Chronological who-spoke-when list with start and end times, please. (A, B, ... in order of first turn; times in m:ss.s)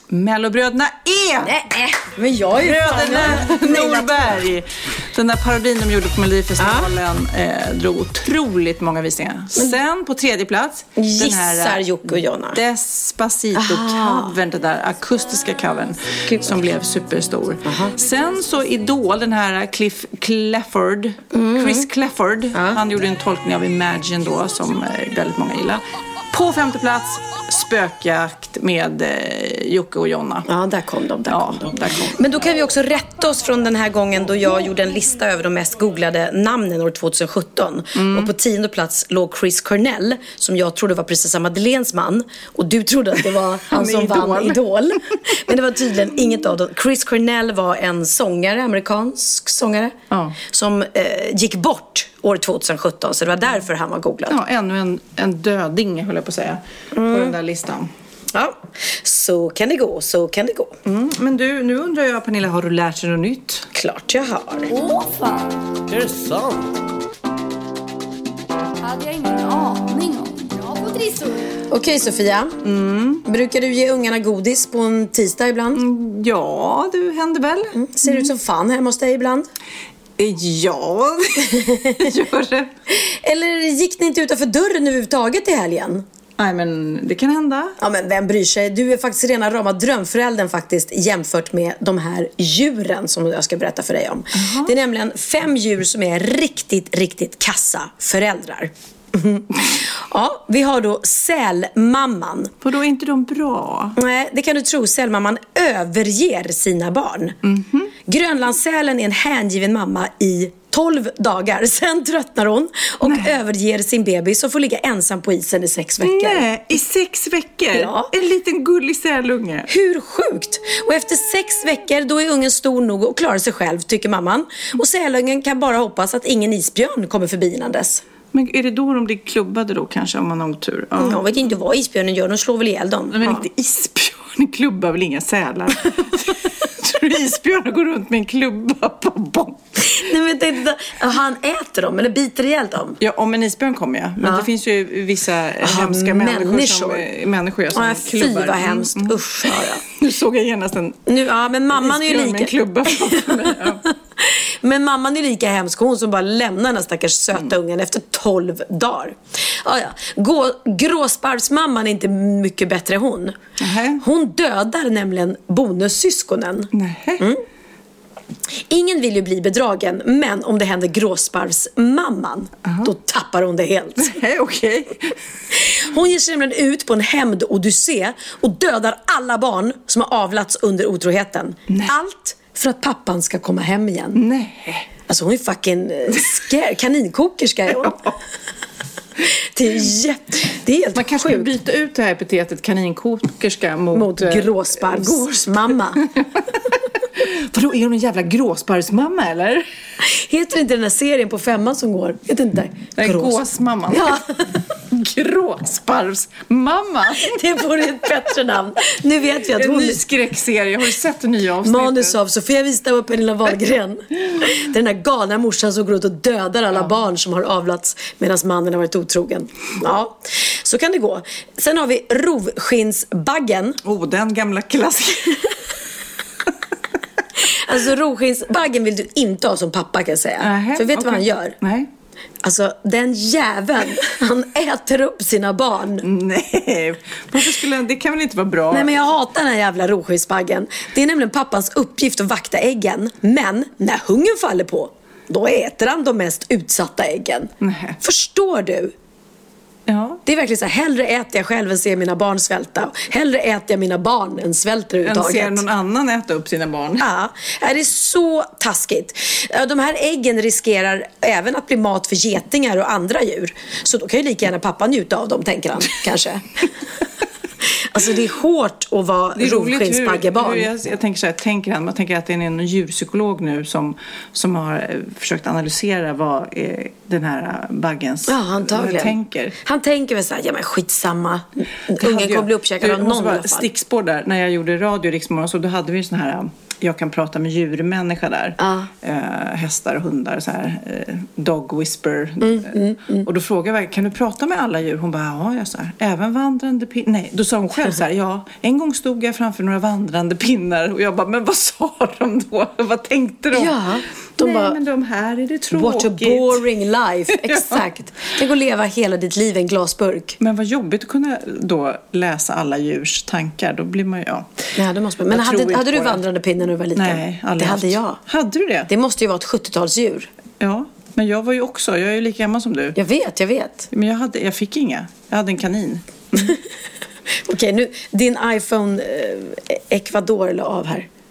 0:00.1-0:01.5 A
0:01.4-0:04.3 B
0:02.5-0:11.8 A
0:06.6-0:06.9 B
0:11.0-0:12.6 B
0:12.5-0:30.5 A
0:13.5-0:14.3 B
0:17.6-0:17.9 B
0:21.3-0:21.9 B
0:22.5-0:22.8 B
0:30.5-0:54.4 B
0:31.3-0:32.2 A
0:37.9-0:38.3 A
0:43.7-0:44.6 A
0:45.1-0:45.4 A
0:50.1-0:50.4 A
0:54.3-0:57.9 A
0:56.9-0:57.3 B
0:58.3-1:00.8 B
1:00.8-1:03.7 A
1:03.7-1:04.7 B
1:04.7-1:06.1 C
1:08.8-1:11.6 C
1:11.7-1:12.6 B
1:12.6-1:13.2 A
1:13.2-1:15.8 B
1:15.7-1:18.3 A
1:17.8-1:19.5 B
1:20.2-1:22.7 A
1:21.4-1:22.1 B
1:22.9-1:26.0 B
1:26.4-1:27.8 A
1:27.8-1:42.5 B
1:34.3-1:34.7 A
1:42.6-1:44.0 A
1:44.0-1:47.4 B
1:47.4-1:47.9 A
1:48.0-1:56.4 B
1:53.0-1:53.4 A
1:56.0-1:59.7 A
1:57.7-1:58.1 B
1:59.7-2:08.0 B
2:08.3-2:11.2 A
2:11.0-2:13.4 B
2:13.1-2:19.9 A
2:19.8-2:23.0 B
2:23.0-2:31.0 A
2:24.2-2:24.5 B
2:25.6-2:27.1 B
2:27.7-2:29.8 B
2:31.0-2:43.4 B
2:31.7-2:33.8 A
2:43.6-2:44.0 A
2:44.0-2:47.4 B
2:46.7-2:47.2 A
2:48.7-2:54.2 B
2:52.6-2:52.9 A
2:54.0-2:55.1 A
2:55.5-3:04.2 B
3:01.7-3:01.9 A
3:04.1-3:04.9 A
3:05.0-3:08.0 B
3:07.7-3:08.2 A
3:09.3-3:11.5 B
3:10.9-3:19.6 A
3:13.9-3:16.0 B
3:20.0-3:24.6 B
3:23.0-3:24.2 A
3:24.9-3:27.4 A
3:27.1-3:30.0 B
3:29.4-3:32.2 A
3:31.6-3:43.8 B
3:43.8-3:45.5 A
3:47.5-3:51.6 B
3:50.4-3:51.9 A
3:52.4-3:56.0 B
3:56.0-3:58.9 A
3:58.7-4:08.9 B
4:07.6-4:08.0 A
4:09.9-4:10.2 A
4:10.2-4:15.6 B
4:15.0-4:17.1 A
4:17.0-4:26.7 B
4:27.6-4:30.7 B
4:29.4-4:39.5 A
4:38.3-4:43.7 B
4:42.0-5:03.8 A
4:48.6-4:48.9 B
4:52.4-4:53.3 B
5:03.5-5:04.8 B
5:04.4-5:06.6 A
5:05.7-5:10.4 B
5:07.4-5:07.8 A
5:10.4-5:14.7 A
5:14.8-5:18.2 B
5:15.3-5:16.2 A
5:16.9-5:18.9 A
5:18.9-5:20.3 B
5:20.6-5:23.0 A
5:23.0-5:23.9 B
5:23.9-5:26.6 A
5:27.4-5:31.1 B